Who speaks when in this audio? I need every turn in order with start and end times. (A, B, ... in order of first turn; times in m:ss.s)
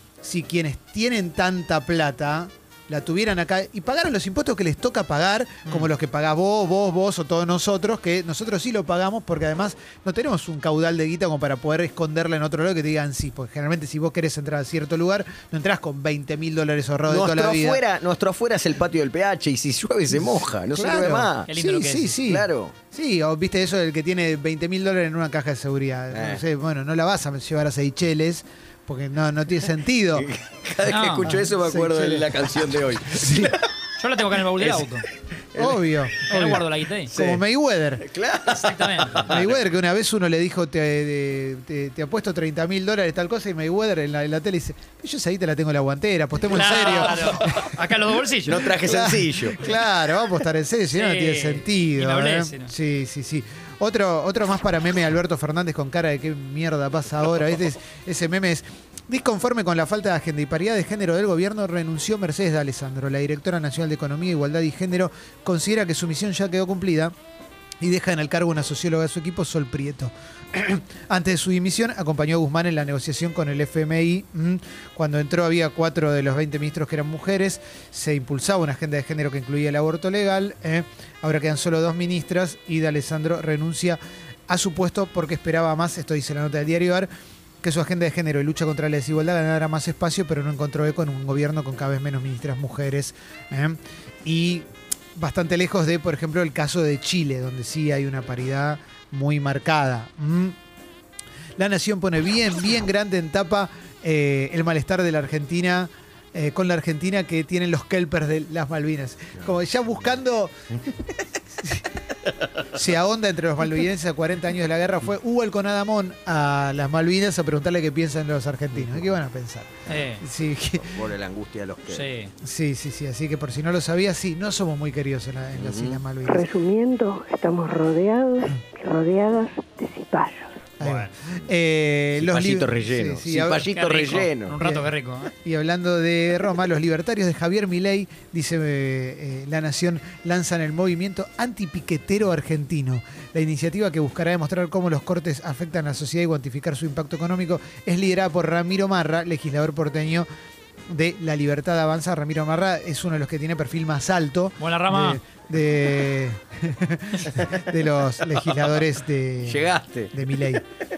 0:00.2-0:17.8 A
0:17.1-0:21.5 B
0:20.1-0:30.3 A
0:21.5-0:22.2 C
0:22.3-0:22.7 B
0:26.1-0:26.4 B
0:30.2-0:33.6 B
0:30.9-0:31.3 C
0:31.2-0:33.5 A
0:34.0-0:35.1 C
0:34.6-0:35.8 B
0:35.6-0:38.1 A
0:36.2-0:37.1 C
0:37.1-0:37.4 B
0:38.0-0:39.6 B
0:38.5-0:39.4 C
0:39.2-0:47.7 A
0:46.5-0:48.8 C
0:47.1-0:47.6 B
0:48.5-0:49.8 B
0:48.8-1:07.1 A
0:50.9-0:52.7 C
1:07.8-1:27.1 A
1:27.6-1:40.6 A
1:41.6-1:51.9 A
1:52.7-2:01.0 A
1:59.9-2:00.2 C
2:00.8-2:02.1 B
2:01.9-2:02.3 C
2:02.4-2:06.5 A
2:05.6-2:06.0 B
2:06.2-2:10.6 D
2:10.8-2:11.1 C
2:10.8-2:13.7 A
2:12.2-2:14.6 B
2:13.7-2:15.3 C
2:14.6-2:30.3 A
2:30.9-2:40.6 A
2:34.6-2:35.2 C
2:39.4-2:40.1 B